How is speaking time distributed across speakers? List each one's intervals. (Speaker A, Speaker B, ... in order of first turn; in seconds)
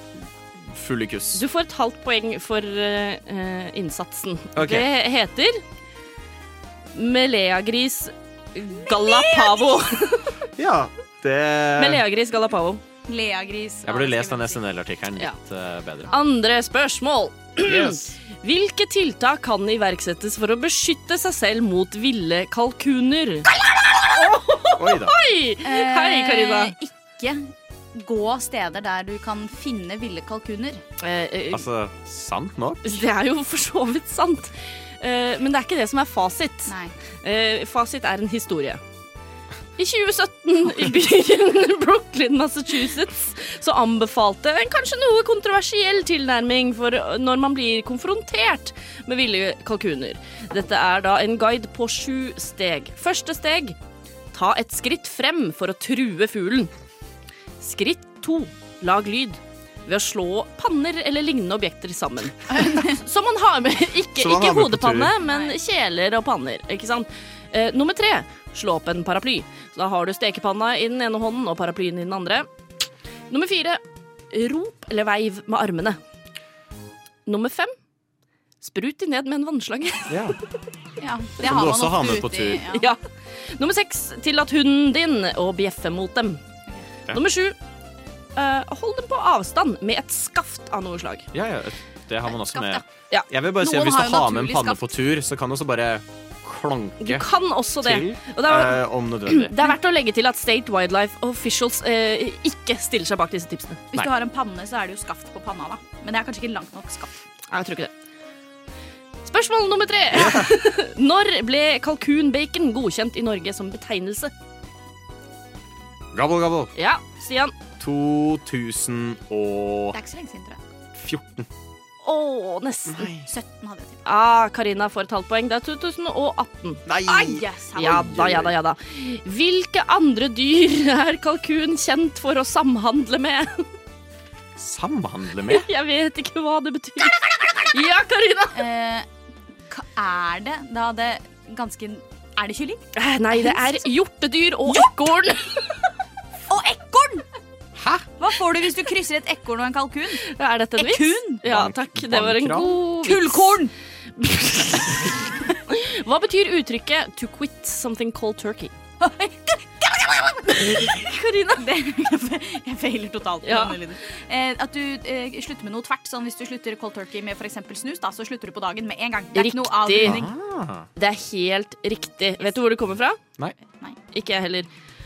Speaker A: 0.6-1.4, 4.6-4.9, 10.6-12.1, 13.8-16.1, 17.6-18.2, 24.6-25.2, 31.5-33.0, 64.2-65.1, 80.1-80.4, 81.4-82.8, 91.3-97.3, 97.8-99.6, 110.1-110.6, 116.1-116.7, 117.8-120.0, 120.9-121.5, 122.9-123.3, 126.9-128.5, 134.6-135.7, 147.8-148.1, 151.4-152.8, 170.0-170.9
Speaker B: 1.3-5.6, 6.9-10.4, 11.8-12.8, 16.1-23.5, 24.1-26.8, 31.0-31.7, 32.8-38.8, 39.8-53.8, 54.3-56.7, 57.6-72.5, 73.3-76.0, 77.3-77.8, 78.6-80.3, 82.7-86.4, 87.1-87.6, 88.3-91.3, 97.0-103.8, 107.5-107.9, 109.2-114.3, 116.8-117.5, 122.0-123.1, 124.0-126.8, 127.8-133.7, 135.5-138.6, 142.9-145.8, 150.1-153.6, 154.2-158.7, 163.4-163.8, 169.3-170.2, 171.0-173.2, 174.1-174.7
Speaker C: 9.0-9.5, 13.1-14.6, 25.6-30.8, 36.7-36.9, 62.5-63.0, 65.2-65.5, 81.0-82.9, 92.3-92.8, 93.6-94.9, 103.9-107.1, 119.9-120.7, 123.2-124.0, 127.0-128.1, 138.5-139.1, 139.7-143.8, 146.5-147.3, 148.2-150.2, 150.8-151.4, 153.0-153.7, 159.0-170.3